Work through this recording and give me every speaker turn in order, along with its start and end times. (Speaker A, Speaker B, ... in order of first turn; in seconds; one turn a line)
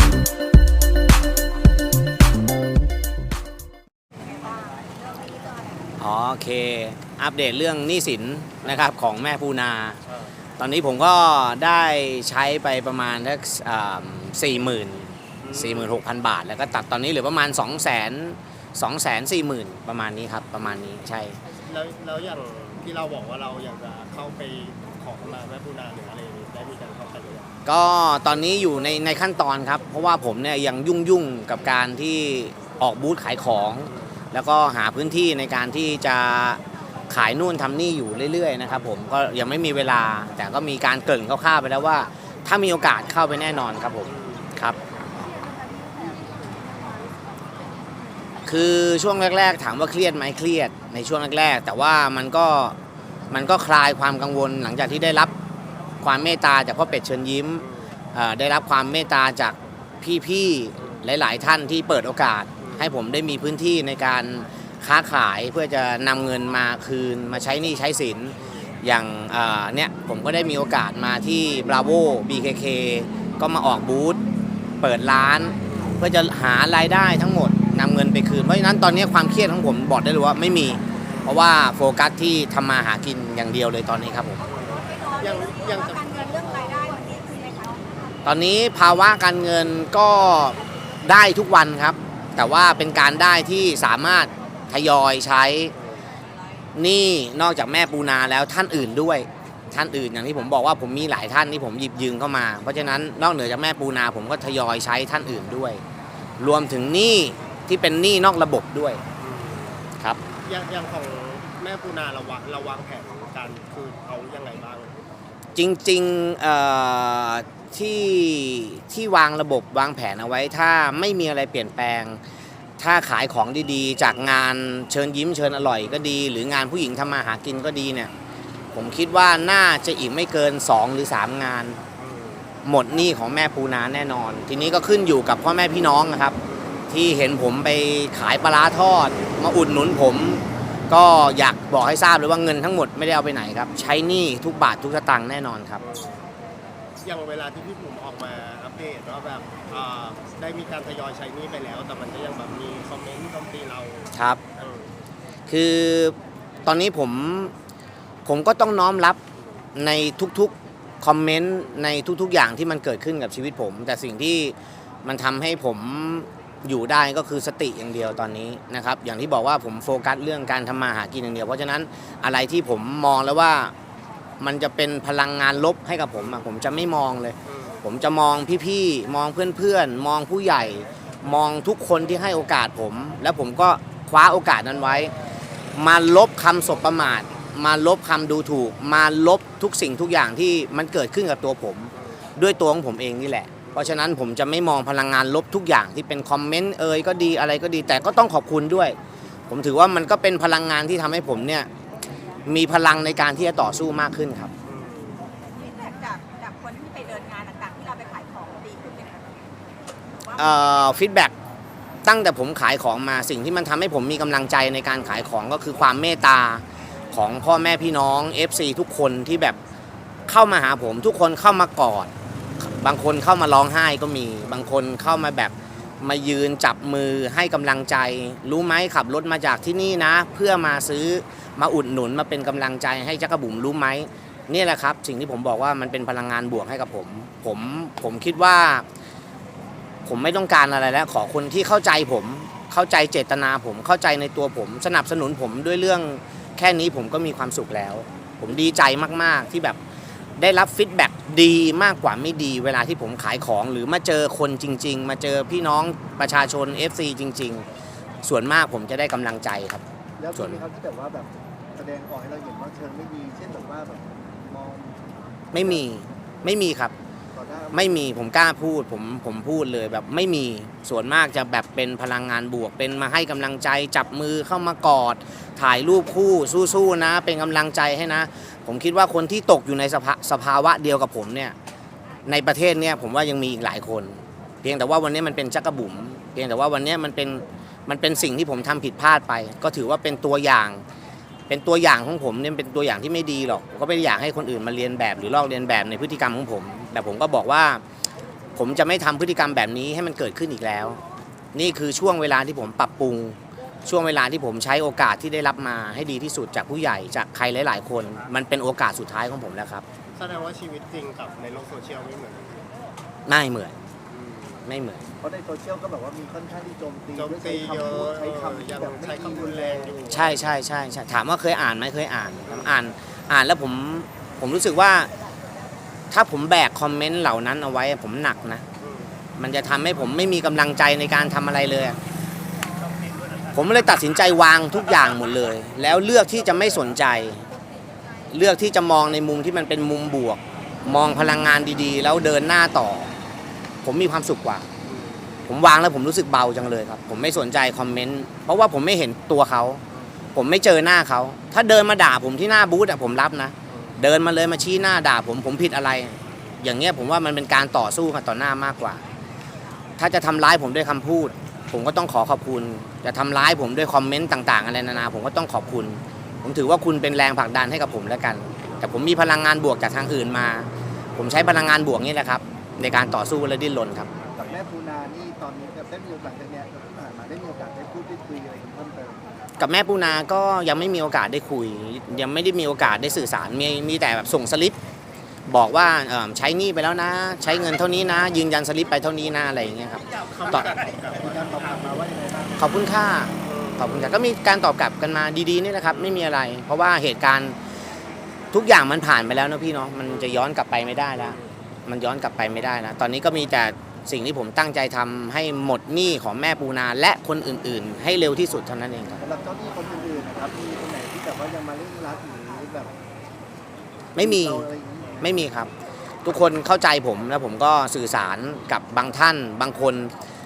Speaker A: 4.3-5.8
Speaker B: 6.0-10.0
Speaker C: 10.1-10.4
Speaker B: 10.6-21.4
Speaker C: 15.4-16.0
Speaker C: 21.6-27.5
Speaker B: 27.6-44.8
Speaker C: 33.9-34.2
Speaker C: 44.0-44.5
Speaker B: 48.5-52.8
Speaker B: 53.3-55.3
Speaker B: 56.0-74.2
Speaker C: 57.6-57.9
Speaker C: 60.8-61.1
Speaker C: 62.6-62.9
Speaker C: 68.4-68.7
Speaker B: 74.8-84.4
Speaker C: 81.1-81.4
Speaker C: 84.5-86.3
Speaker A: 85.0-88.1
Speaker B: 88.2-95.7
Speaker C: 95.8-96.0
Speaker B: 96.8-105.8
Speaker B: 106.4-109.0
Speaker C: 109.2-109.8
Speaker C: 110.4-115.0
Speaker B: 115.5-122.2
Speaker B: 122.8-128.1
Speaker B: 128.7-131.8
Speaker C: 132.0-132.5
Speaker B: 132.6-136.4
Speaker C: 136.5-136.8
Speaker B: 136.9-145.8
Speaker C: 145.8-146.3
Speaker C: 147.0-154.9
Speaker B: 154.1-154.4
Speaker B: 155.5-157.5
Speaker B: 158.2-159.2
Speaker B: 159.8-173.7
Speaker B: 174.4-185.1
Speaker C: 177.5-177.8
Speaker B: 185.7-199.0
Speaker C: 193.7-194.0
Speaker B: 199.5-201.7
Speaker B: 202.5-204.5
Speaker C: 204.7-205.3
Speaker A: 205.5-209.4
Speaker A: 210.2-210.5
Speaker B: 210.3-211.3
Speaker B: 212.1-219.6
Speaker B: 220.3-222.1
Speaker B: 222.7-238.8
Speaker B: 240.1-249.8
Speaker B: 250.4-257.7
Speaker B: 258.2-260.6
Speaker D: 260.2-265.0
Speaker B: 265.5-266.9
Speaker D: 265.5-265.8
Speaker D: 267.3-268.1
Speaker B: 267.7-281.6
Speaker B: 282.3-290.8
Speaker B: 291.5-297.8
Speaker B: 298.6-301.0
Speaker B: 301.5-309.9
Speaker C: 310.1-312.6
Speaker B: 313.3-313.8
Speaker C: 314.1-314.7
Speaker B: 314.6-315.1
Speaker D: 315.2-320.0
Speaker C: 317.2-320.4
Speaker B: 320.1-325.1
Speaker B: 326.1-328.6
Speaker C: 328.8-329.2
Speaker B: 329.4-332.0
Speaker B: 333.5-337.5
Speaker B: 338.3-343.1
Speaker B: 343.8-344.7
Speaker C: 344.9-345.5
Speaker B: 345.5-349.8
Speaker B: 350.4-359.0
Speaker C: 353.7-354.0
Speaker B: 360.0-374.1
Speaker D: 374.4-379.2
Speaker B: 379.6-384.8
Speaker B: 385.5-390.7
Speaker C: 390.1-392.0
Speaker D: 391.2-392.7
Speaker B: 392.6-397.6
Speaker C: 393.4-394.2
Speaker C: 395.9-396.3
Speaker B: 398.5-409.2
Speaker C: 400.1-400.4
Speaker C: 401.2-401.5
Speaker D: 409.2-412.9
Speaker B: 414.1-414.7
Speaker D: 414.2-415.4
Speaker B: 415.2-415.7
Speaker B: 416.2-420.1